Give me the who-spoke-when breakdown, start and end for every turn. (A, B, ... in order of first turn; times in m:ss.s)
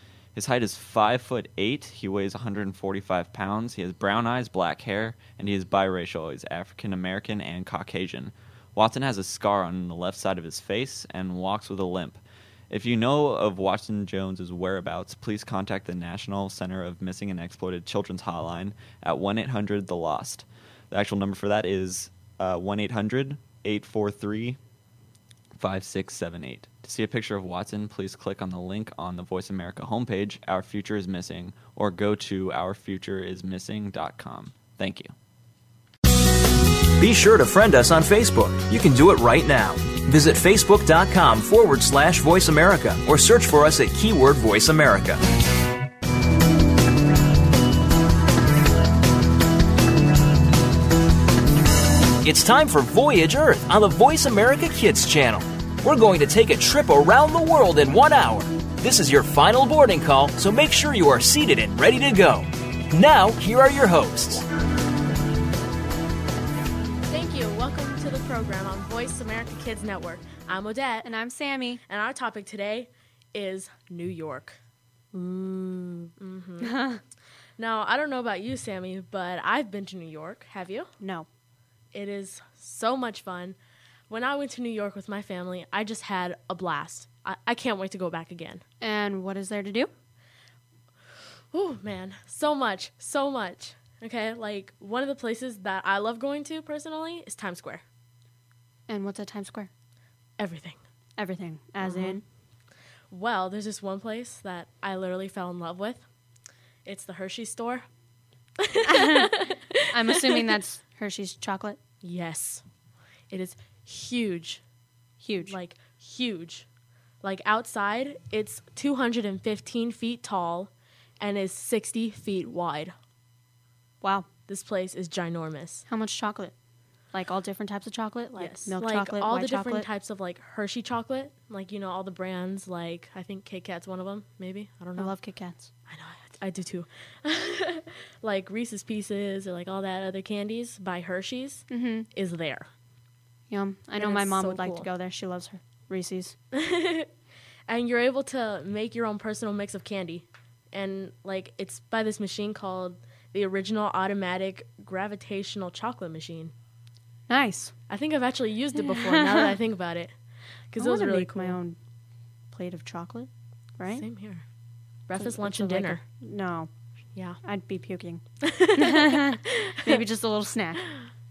0:00.3-0:24.6 A
0:25.6-0:35.1 A
0:37.0-0:45.2 B
0:52.2-1:04.4 B
1:07.1-1:11.1 C
1:11.0-1:11.8 D
1:11.9-1:14.6 C
1:15.1-1:17.0 D
1:16.2-1:16.8 C
1:17.6-1:20.9 C
1:21.0-1:21.3 D
1:21.9-1:23.6 C
1:24.1-1:28.6 C
1:28.8-1:29.9 D
1:31.5-1:37.8 C
1:38.9-1:39.7 D
1:40.4-1:40.8 C
1:41.2-1:42.2 D
1:41.8-1:42.2 C
1:43.1-1:46.0 C
1:46.8-1:47.8 C
1:48.6-1:50.5 C
1:48.8-1:51.8 D
1:52.0-1:52.6 C
1:53.3-1:54.6 C
1:55.2-1:55.6 D
1:55.5-1:56.6 C
1:57.2-2:02.9 C
2:04.0-2:04.3 D
2:04.5-2:05.8 C
2:05.9-2:06.5 D
2:07.1-2:09.9 D
2:08.4-2:15.1 C
2:15.0-2:15.7 D
2:15.9-2:22.7 C
2:21.7-2:22.1 D
2:23.5-2:26.3 D
2:24.0-2:24.9 C
2:26.5-2:27.1 C
2:27.7-2:36.5 C
2:37.3-2:37.7 D
2:37.9-2:40.1 C
2:38.8-2:39.6 D
2:40.7-2:41.6 C
2:40.8-2:41.8 D
2:42.5-2:44.0 D
2:43.9-2:44.4 C
2:45.1-2:46.0 C
2:45.2-2:46.7 D
2:47.4-2:48.2 D
2:48.4-2:50.0 C
2:48.7-2:50.9 D